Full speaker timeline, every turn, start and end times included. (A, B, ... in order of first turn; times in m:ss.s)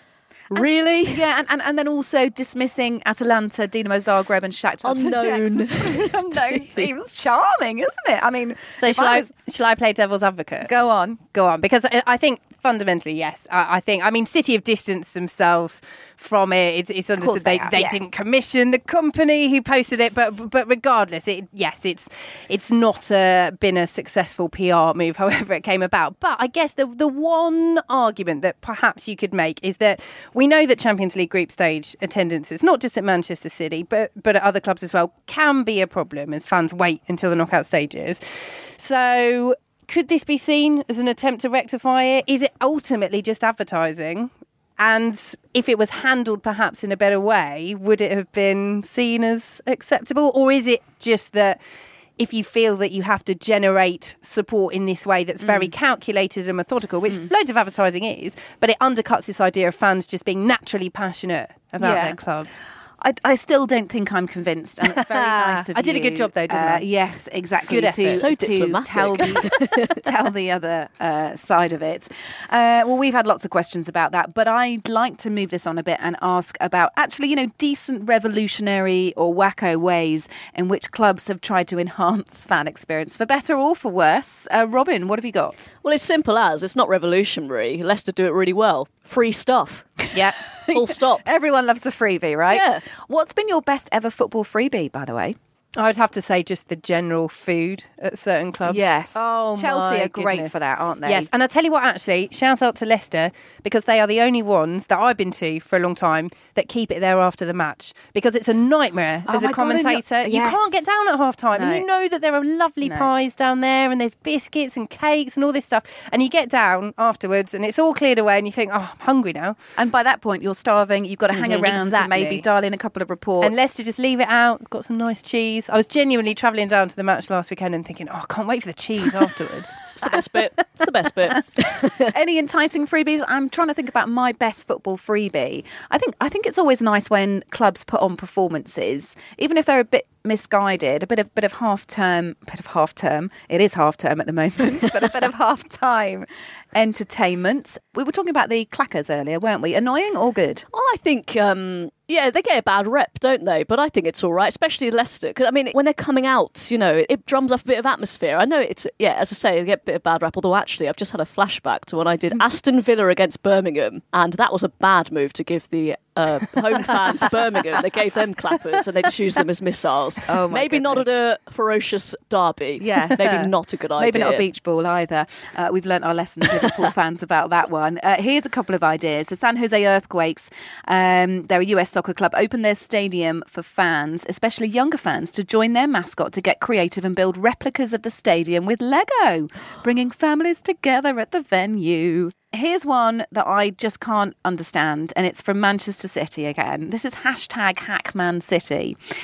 0:00.5-0:01.2 A
0:00.5-0:09.3 B
0:04.8-0:07.2 A
0:08.8-0:10.7 C
0:10.6-0:11.2 B
0:11.3-0:38.2 C
0:17.2-0:18.0 B
0:38.8-0:51.6 C
0:52.2-1:02.5 C
0:55.4-0:55.7 B
1:01.8-1:02.2 B
1:03.0-1:25.7 B
1:04.8-1:06.8 C
1:07.7-1:08.2 C
1:08.1-1:10.0 A
1:25.8-1:30.0 A
1:30.1-1:35.4 B
1:30.7-1:31.2 A
1:32.5-1:32.8 A
1:35.8-1:59.6 C
1:38.6-1:41.3 B
1:49.3-1:50.8 B
1:51.5-1:51.8 B
1:52.8-1:53.1 B
1:59.8-2:03.7 B
2:01.3-2:02.4 C
2:03.4-2:09.8 C
2:10.0-2:12.1 A
2:11.8-2:30.6 B
2:30.7-2:54.4 A
2:50.3-2:51.1 B
2:52.8-3:19.0 B